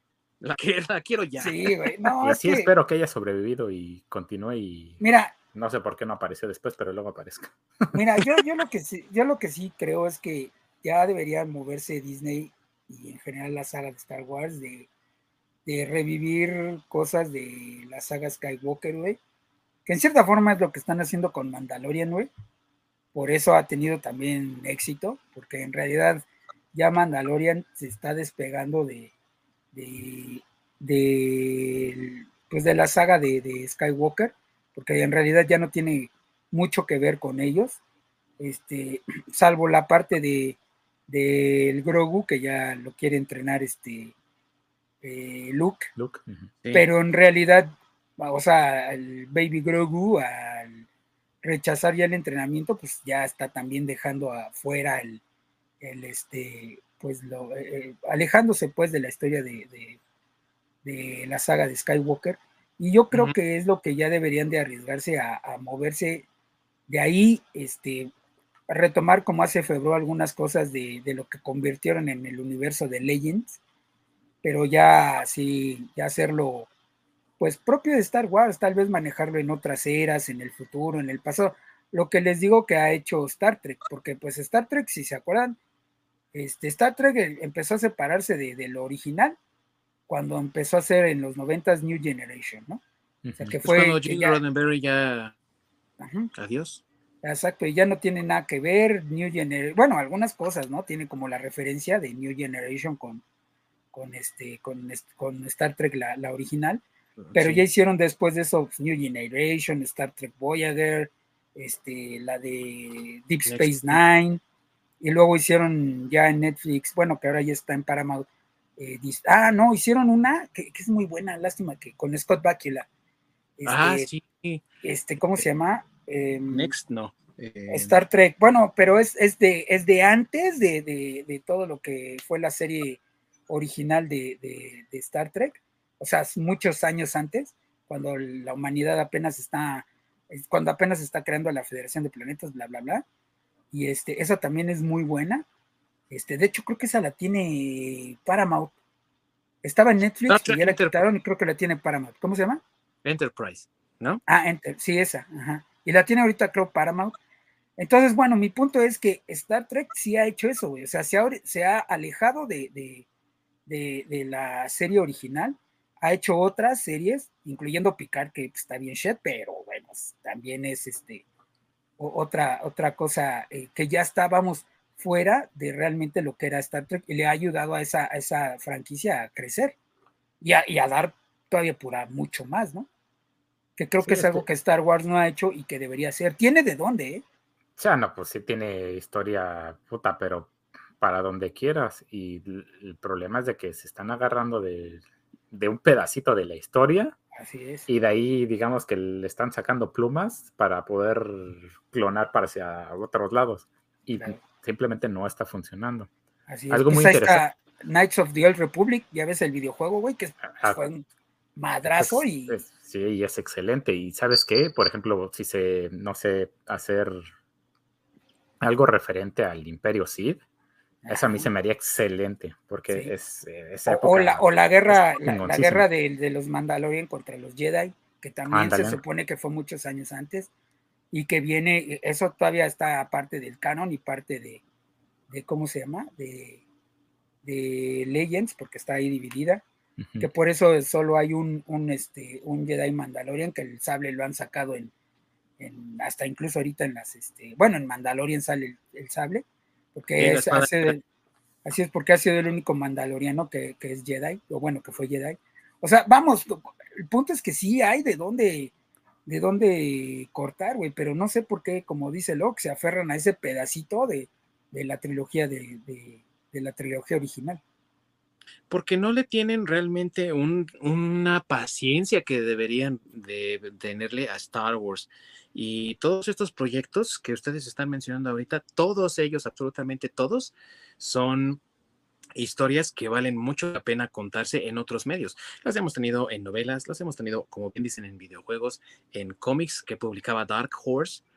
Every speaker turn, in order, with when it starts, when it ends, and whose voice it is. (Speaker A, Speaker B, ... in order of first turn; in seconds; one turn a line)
Speaker A: 0.4-1.9
Speaker B: 1.4-2.7
Speaker C: 2.2-5.0
Speaker B: 5.0-5.3
Speaker C: 5.5-8.3
Speaker B: 7.9-14.9
Speaker B: 15.7-19.2
Speaker B: 19.9-22.3
Speaker B: 23.1-29.1
Speaker B: 29.7-37.8
Speaker B: 38.4-40.6
Speaker B: 41.1-44.1
Speaker B: 45.0-45.9
Speaker C: 46.0-46.5
Speaker B: 46.7-50.9
Speaker B: 51.4-55.2
Speaker B: 55.8-60.0
Speaker B: 60.8-66.3
Speaker B: 66.9-68.1
Speaker B: 68.7-73.6
Speaker B: 74.4-76.7
Speaker B: 77.4-85.6
Speaker B: 86.3-89.4
Speaker B: 90.1-92.8
Speaker C: 93.2-93.6
Speaker B: 93.4-94.4
Speaker A: 93.6-95.3
Speaker B: 96.0-96.3
Speaker A: 96.3-96.8
Speaker B: 97.2-103.2
Speaker B: 103.9-106.8
Speaker A: 107.2-107.7
Speaker B: 107.3-114.4
Speaker A: 113.5-114.0
Speaker B: 115.0-122.9
Speaker B: 123.6-124.1
Speaker A: 123.7-124.6
Speaker B: 124.8-126.7
Speaker A: 126.5-128.0
Speaker B: 127.7-143.0
Speaker B: 143.7-145.4
Speaker B: 146.1-148.7
Speaker B: 149.6-152.6
Speaker A: 150.3-151.1
Speaker A: 153.1-154.2
Speaker B: 154.3-157.2
Speaker B: 157.8-163.1
Speaker B: 163.7-171.2
Speaker B: 172.0-179.8
Speaker B: 180.4-182.9
Speaker B: 183.8-187.2
Speaker C: 184.0-184.4
Speaker C: 187.8-197.2
Speaker B: 197.3-197.9
Speaker C: 197.9-206.1
Speaker B: 206.5-212.6
Speaker C: 206.7-207.4
Speaker C: 211.9-217.2
Speaker C: 218.6-220.4
Speaker B: 221.0-221.5
Speaker C: 221.1-225.9
Speaker B: 223.9-230.5
Speaker C: 228.5-229.0
Speaker B: 231.1-234.6
Speaker B: 235.3-236.6
Speaker B: 237.4-239.6
Speaker C: 240.0-240.3
Speaker B: 240.2-244.9
Speaker B: 245.6-251.0
Speaker A: 250.2-251.0
Speaker B: 251.7-258.7
Speaker B: 259.3-267.6
Speaker A: 268.7-281.6
Speaker A: 282.4-291.2